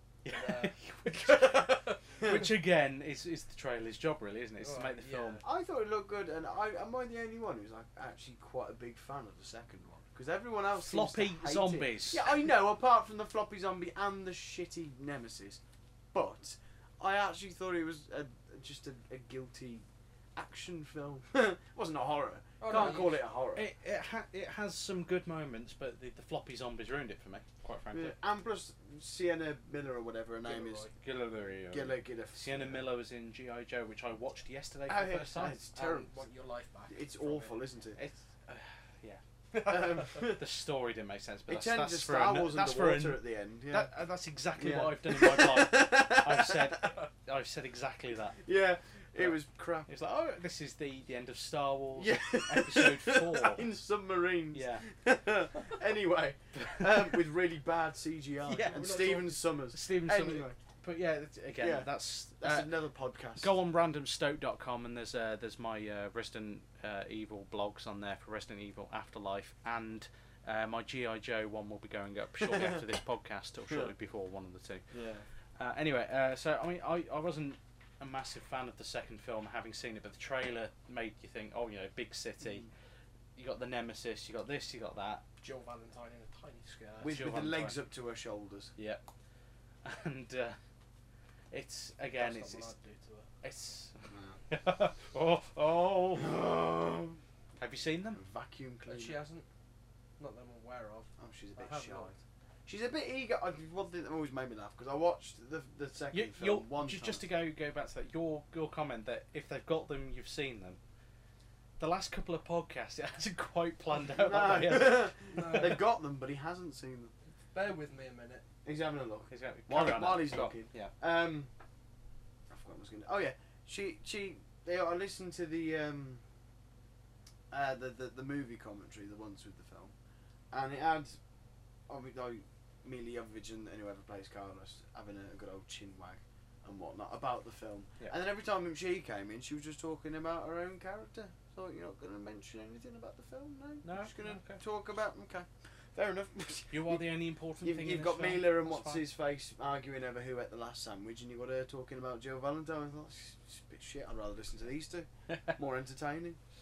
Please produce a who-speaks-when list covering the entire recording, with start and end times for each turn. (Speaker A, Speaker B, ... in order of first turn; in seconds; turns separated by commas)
Speaker A: 0.2-5.4, Speaker B: 0.3-2.4, Speaker B: 4.6-5.4, Speaker C: 5.4-15.6, Speaker A: 10.8-12.4, Speaker C: 16.1-23.7, Speaker B: 22.6-23.2, Speaker A: 22.7-28.2, Speaker C: 27.9-30.9, Speaker B: 30.4-30.9, Speaker A: 31.0-35.6, Speaker C: 31.7-32.8, Speaker C: 34.9-36.3, Speaker B: 35.1-37.5, Speaker C: 36.9-38.0, Speaker A: 38.0-39.2, Speaker C: 39.7-40.4, Speaker A: 40.0-48.4, Speaker C: 41.5-43.9, Speaker C: 44.6-47.0, Speaker C: 48.4-49.9, Speaker A: 49.2-53.6, Speaker C: 52.0-60.6, Speaker A: 54.5-54.9, Speaker A: 58.4-59.0, Speaker B: 58.6-59.4, Speaker A: 59.7-62.7, Speaker C: 61.6-63.6, Speaker A: 63.4-74.9, Speaker C: 72.4-72.8, Speaker C: 74.9-75.3, Speaker A: 75.6-82.7, Speaker A: 83.4-85.2, Speaker B: 85.4-87.2, Speaker C: 87.0-88.7, Speaker A: 87.0-87.8, Speaker A: 88.8-89.0, Speaker A: 89.8-90.6, Speaker A: 91.5-92.7, Speaker B: 92.2-93.3, Speaker A: 93.4-96.5, Speaker C: 94.1-94.4, Speaker C: 96.2-97.1, Speaker A: 97.6-98.2, Speaker C: 98.2-99.2, Speaker B: 98.9-99.5, Speaker B: 100.2-102.1, Speaker C: 101.2-107.2, Speaker A: 106.1-110.8, Speaker A: 111.8-115.1, Speaker C: 114.0-117.1, Speaker B: 115.3-115.8, Speaker B: 117.5-118.5, Speaker C: 118.7-121.5, Speaker A: 119.3-120.9, Speaker C: 122.5-126.2, Speaker C: 127.5-129.9, Speaker C: 130.5-131.2, Speaker C: 131.9-147.0, Speaker A: 143.8-144.6, Speaker A: 146.7-149.0, Speaker C: 147.6-156.4